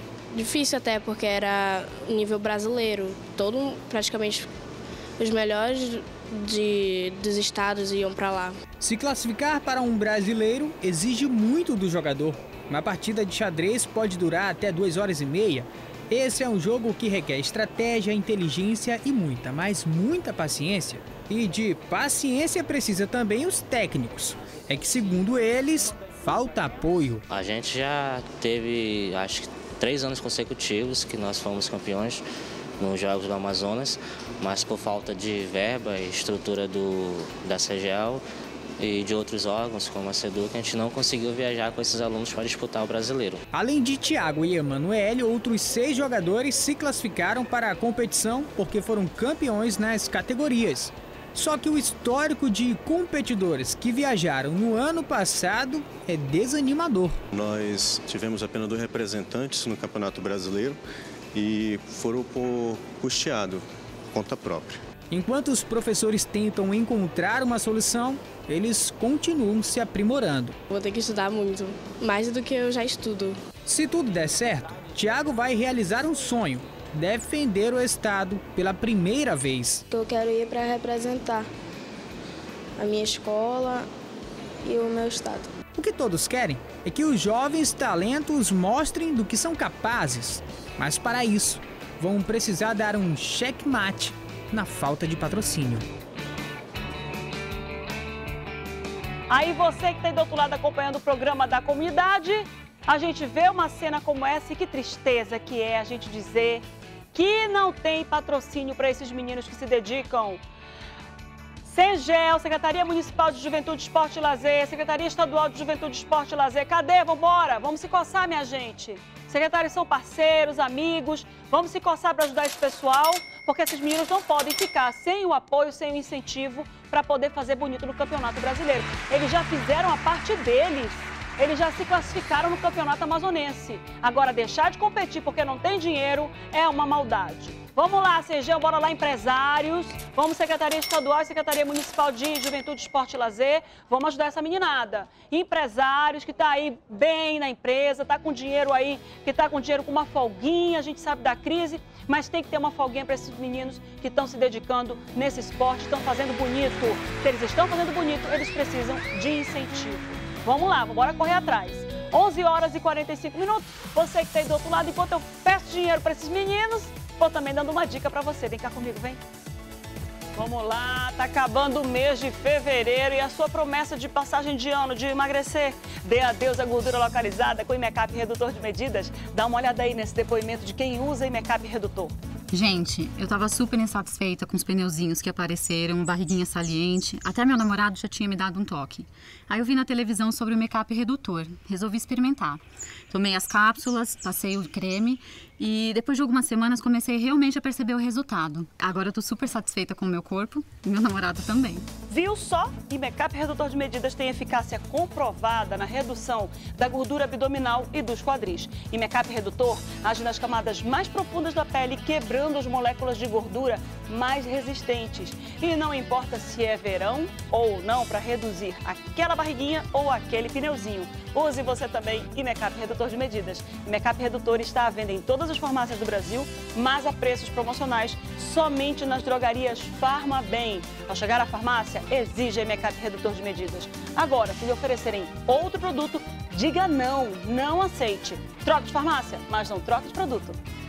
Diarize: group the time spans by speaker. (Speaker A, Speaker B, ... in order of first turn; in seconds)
Speaker A: 0.3-4.5, 5.2-8.6, 70.7-73.4, 79.9-81.5, 82.8-83.9, 84.6-85.5
Speaker B: 8.8-27.2, 43.5-57.2, 65.1-70.6, 73.7-79.8, 85.7-95.9
Speaker C: 27.3-32.2, 32.8-38.2, 38.8-43.4
Speaker D: 57.3-60.8, 61.3-64.8
Speaker E: 99.3-110.4, 111.6-169.2, 170.3-182.1, 202.1-240.6
Speaker F: 182.5-201.9